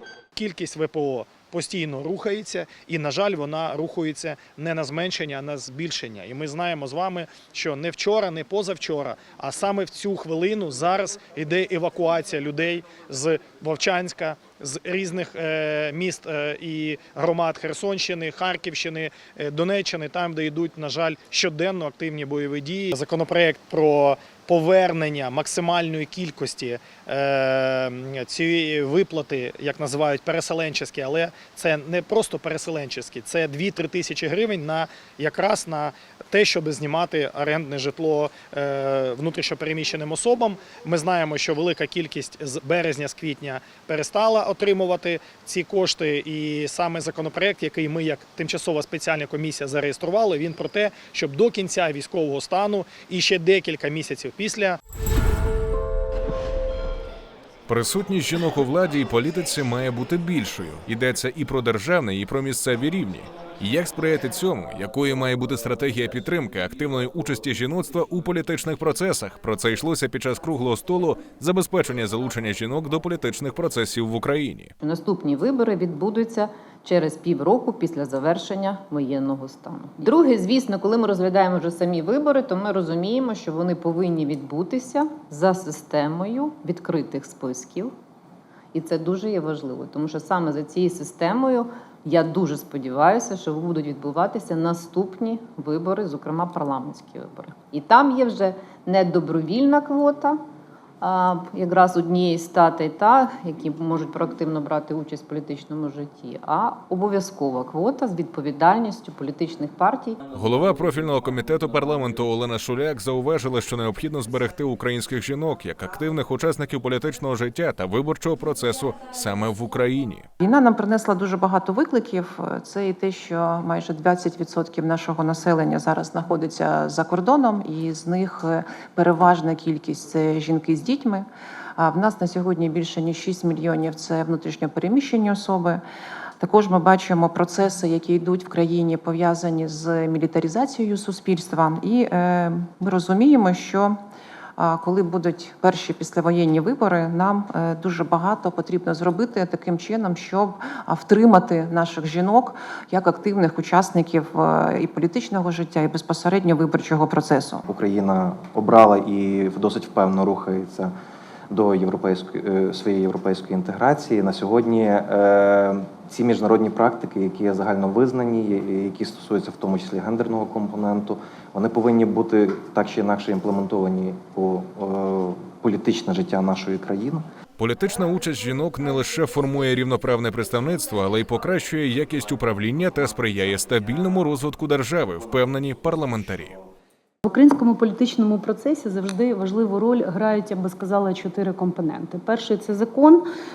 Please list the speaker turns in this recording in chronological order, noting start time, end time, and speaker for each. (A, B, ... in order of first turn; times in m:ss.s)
0:00.4-0:54.8 A
0:57.7-1:14.7 B
1:14.8-1:27.9 C
1:28.7-1:40.4 C
1:41.0-1:50.2 C
1:50.3-2:00.3 B
2:00.4-2:15.8 D
2:16.4-2:24.0 D
2:24.6-2:37.6 D
2:37.7-2:40.9 E
2:41.5-2:57.3 E
2:57.6-3:06.6 B
3:07.2-3:13.3 F